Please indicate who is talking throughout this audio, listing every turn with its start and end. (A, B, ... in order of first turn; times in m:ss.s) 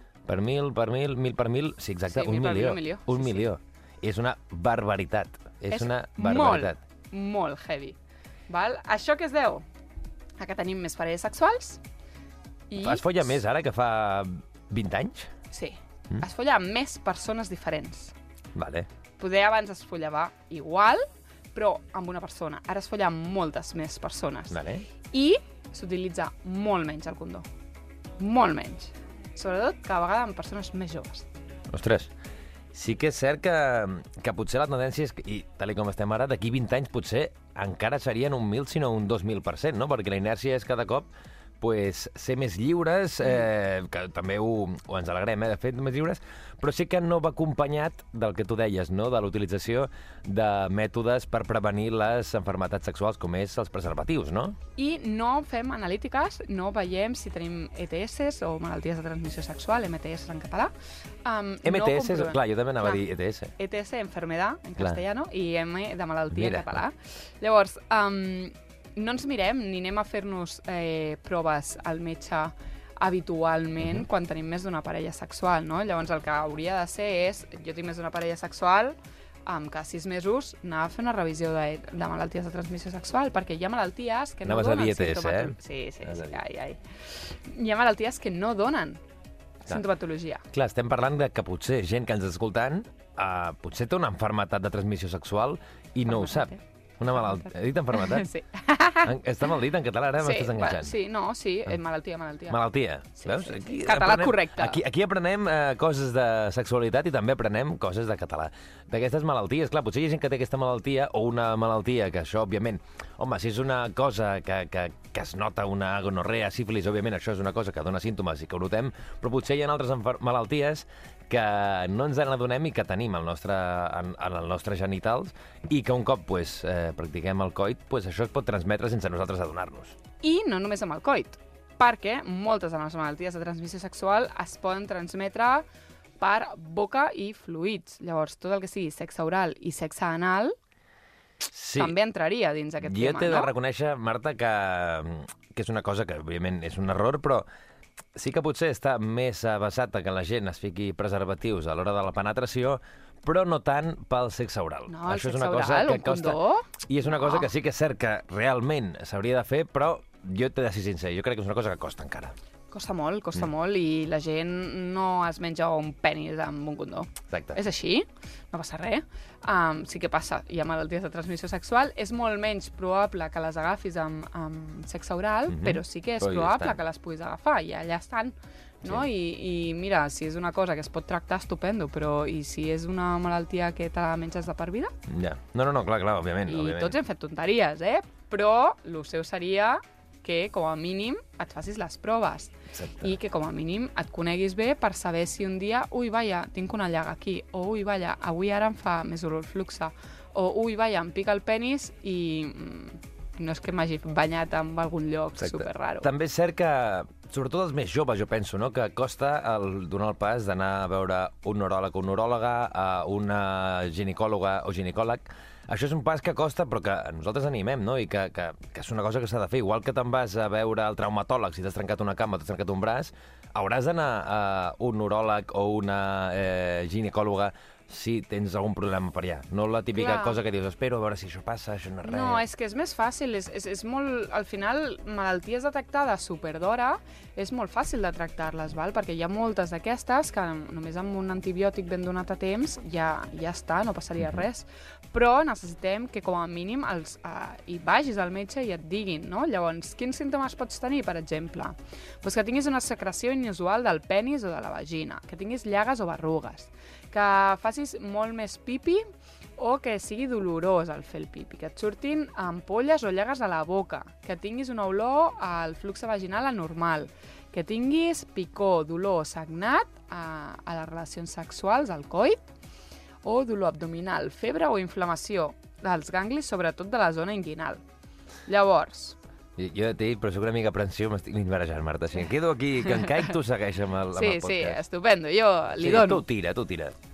0:00.2-0:06.8 A
0:02.1-0:03.5 B
0:05.7-0:08.0 B
0:08.5-0:09.6 B
0:10.4-0:11.8 B
0:12.7-0:13.1 B
0:12.8-0:15.3 A
0:15.5-0:18.1 B
0:18.6-0:18.9 A
0:19.2-0:24.6 B
0:24.5-0:24.9 A
0:25.1-0:27.4 B
0:28.2-0:31.2 B
0:31.7-0:32.1 A
0:32.7-0:41.1 A
0:41.6-0:54.6 A
0:54.8-1:00.7 B
1:01.2-1:03.0 B
1:01.6-1:03.5 A
1:03.6-1:29.0 B
1:06.3-1:06.8 A
1:13.8-1:14.1 A
1:24.4-1:26.4 A
1:29.6-1:30.4 B
1:30.5-1:38.3 A
1:36.1-1:36.6 B
1:37.2-1:39.1 B
1:39.0-1:41.0 A
1:40.2-1:44.8 B
1:42.5-2:10.0 A
2:10.2-2:15.7 B
2:16.2-2:20.5 B
2:21.5-2:22.0 A
2:21.8-2:23.5 B
2:22.8-2:27.5 A
2:28.2-2:42.4 A
2:34.9-2:37.5 B
2:42.7-3:04.9 B
2:47.3-2:47.6 A
2:55.5-2:56.8 A
2:58.8-2:59.1 A
3:05.1-3:07.0 A
3:06.5-3:26.1 B
3:12.7-3:13.2 A
3:25.4-3:52.4 A
3:50.0-3:50.4 B
3:52.0-4:19.0 B
4:19.6-4:32.4 B
4:33.2-4:37.8 B
4:38.5-4:39.2 B
4:39.6-4:44.8 A
4:44.1-4:46.2 B
4:45.8-4:47.0 A